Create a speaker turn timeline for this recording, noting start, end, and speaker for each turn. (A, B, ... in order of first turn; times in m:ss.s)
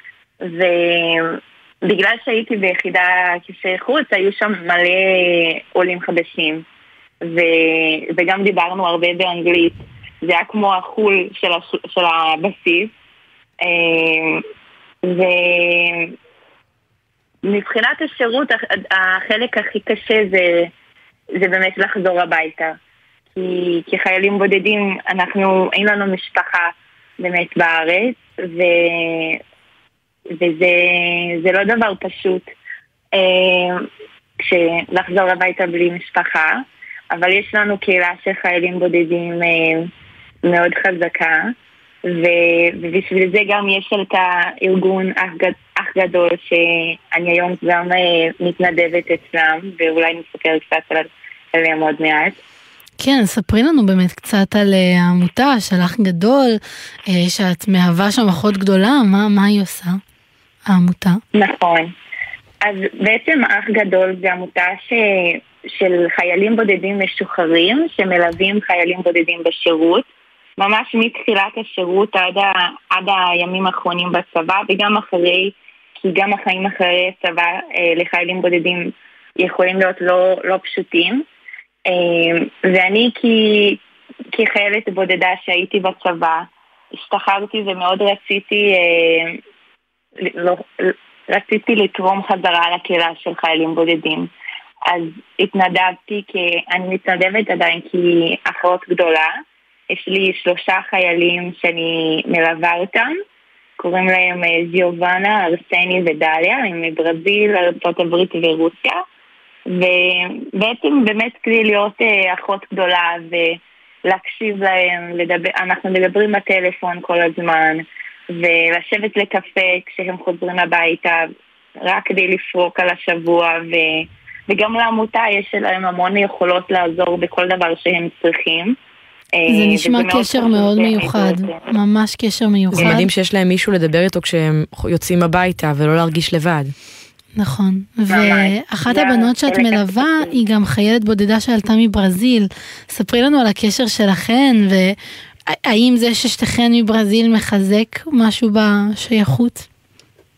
0:00.4-0:06.6 A
0:07.2-0:12.9 A
0:13.6-0:14.4 A
0:15.1-0:16.1 A
0:17.4-0:20.7 A
0:21.4-0:22.7 A
0:23.4-0:29.4 A
0:30.4-0:32.5 A
0:33.1-0:33.8 A
0:34.4-0:39.9 A
0:40.4-0:41.5 A
0:42.1-0:52.4 A
0:53.0-1:00.0 B
1:00.7-1:01.2 B
1:01.3-1:01.9 A
1:02.6-1:10.1 A
1:10.6-1:21.2 A
1:21.9-1:23.8 A
1:24.3-1:26.5 A
1:27.1-1:29.4 A
1:30.2-1:34.3 A
1:34.9-1:39.3 A
1:39.9-1:43.1 A
1:43.8-1:49.0 A
1:49.7-2:01.2 A
2:01.8-2:08.8 A
2:09.3-2:11.7 A
2:09.5-2:13.1 B
2:12.7-2:16.7 C
2:17.4-2:24.9 B
2:18.1-2:20.3 A
2:25.5-2:29.6 B